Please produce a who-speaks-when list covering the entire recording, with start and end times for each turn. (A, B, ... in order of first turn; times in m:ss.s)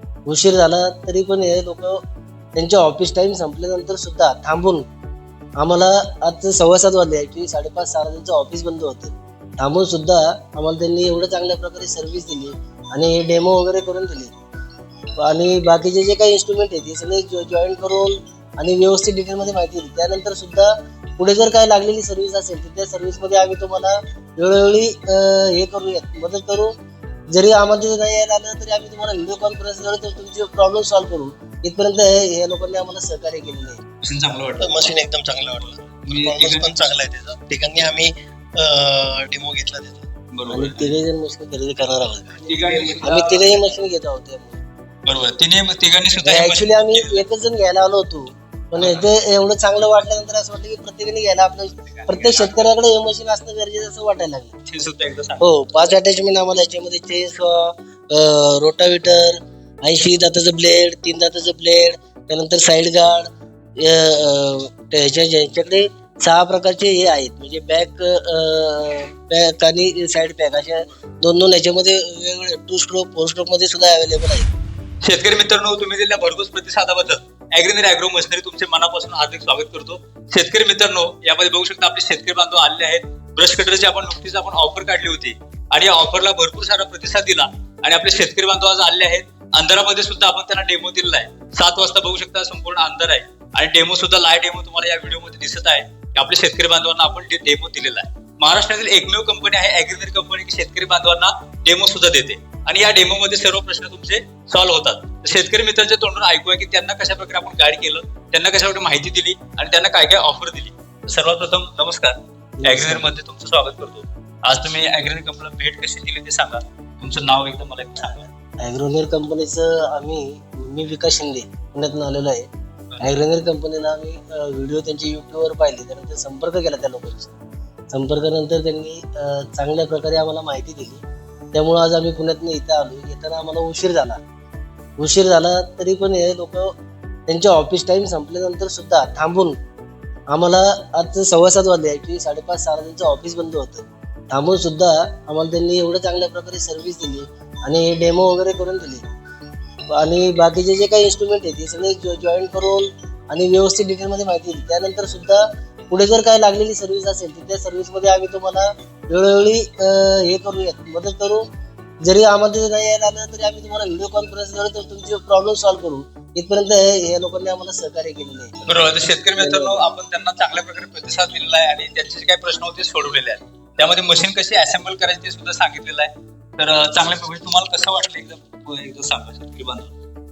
0:00.3-0:02.0 A
0:02.6-0:04.8 A
0:05.6-0:14.3 A
0:15.2-0:26.7 A
0:27.3-0:33.8 A
0:34.0-0:35.0 B
0:34.6-0:40.1 C
0:35.6-0:36.8 B
0:40.3-0:40.9 B
0:40.5-0:44.6 A
0:42.4-0:43.7 B
0:45.1-0:47.2 B
0:46.2-0:54.5 A
0:48.8-0:49.1 B
0:51.8-0:52.8 B
0:54.7-0:55.7 B
0:55.4-1:14.5 A
1:15.0-1:58.3 B
1:52.6-1:53.1 A
1:58.6-2:02.5 A
2:03.0-2:07.3 A
2:07.9-2:14.2 A
2:15.0-2:16.7 A
2:17.3-2:19.6 A
2:20.3-2:29.0 A
2:29.9-2:41.4 A
2:42.0-2:48.6 A
2:48.7-2:59.9 B
2:49.4-2:49.9 A